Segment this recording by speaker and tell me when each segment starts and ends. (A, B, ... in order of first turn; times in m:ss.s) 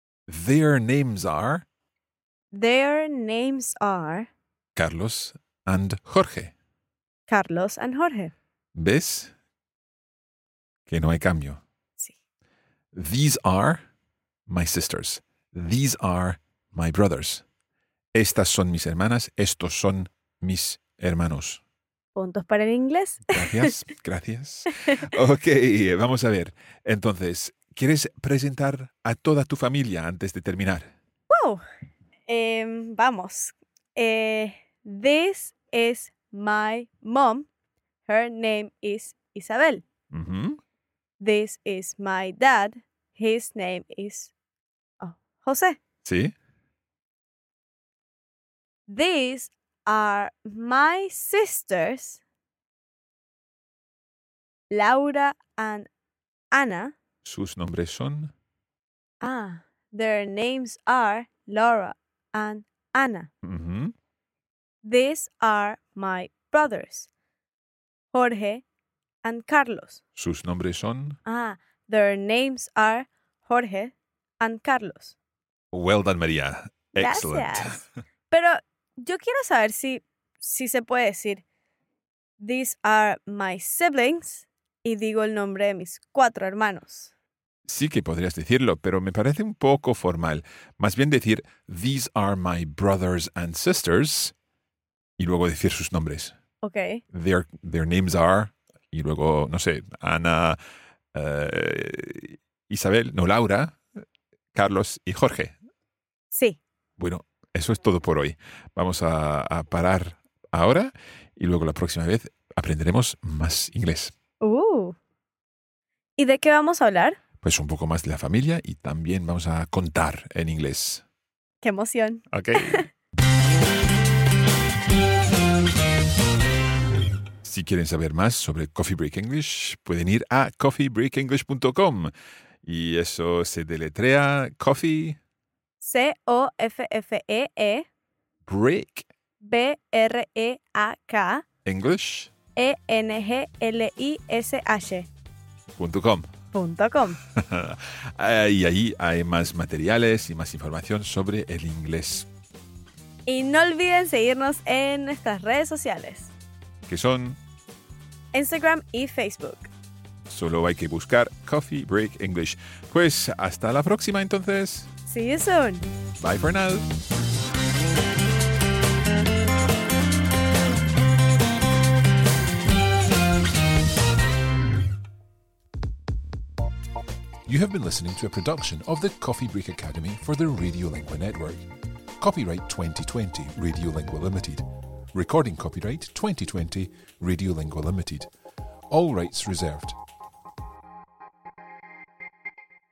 0:00.3-0:01.6 A
0:02.5-0:04.3 B
0:04.8-0:06.5 A
0:07.3-0:08.3 B
0:08.8-0:09.3 A
0:10.9-0:11.6 A
0:12.9-0:13.8 A
0:14.5-0:17.4 A
0:18.1-0:21.6 A
0:22.1-0:23.7 B
0:23.3-0:30.9 A
0:31.3-0:31.6 B
0:32.3-0:37.5 B
0:38.1-0:39.8 B
0:40.1-0:40.6 A
0:41.2-0:44.3 B
0:45.0-0:45.8 B
0:46.0-0:46.3 A
0:48.9-0:52.2 B
0:54.7-0:55.9 B
0:56.5-0:56.9 B
0:57.2-0:58.3 A
0:59.2-1:03.3 B
1:03.4-1:03.9 A
1:04.8-1:07.1 B
1:08.1-1:08.6 B
1:09.2-1:10.0 B
1:10.2-1:11.2 A
1:11.3-1:15.1 B
1:15.7-1:17.8 A
1:17.0-1:21.4 B
1:22.4-1:27.1 B
1:27.7-1:34.3 A
1:35.2-1:36.3 A
1:36.6-1:37.0 B
1:37.1-1:40.6 A
1:41.1-1:43.8 A
1:44.5-1:45.5 A
1:46.3-1:46.6 B
1:47.0-1:54.1 A
1:54.4-1:55.0 B
1:56.2-1:57.2 B
1:57.4-2:01.0 A
2:01.6-2:02.9 B
2:02.3-2:02.8 A
2:07.4-2:12.1 A
2:12.6-2:15.2 A
2:15.8-2:17.9 B
2:18.5-2:19.1 A
2:19.4-2:21.4 B
2:21.6-2:22.3 A
2:22.6-2:25.1 B
2:25.8-2:26.3 A
2:26.5-2:27.2 B
2:27.4-2:32.3 A
2:33.3-2:36.3 B
2:36.9-2:37.4 A
2:38.3-2:39.7 B
2:40.3-2:44.9 A
2:45.1-2:45.9 B
2:46.2-2:46.9 A
2:57.5-3:01.6 A
3:02.2-3:08.3 A
3:08.9-3:10.0 A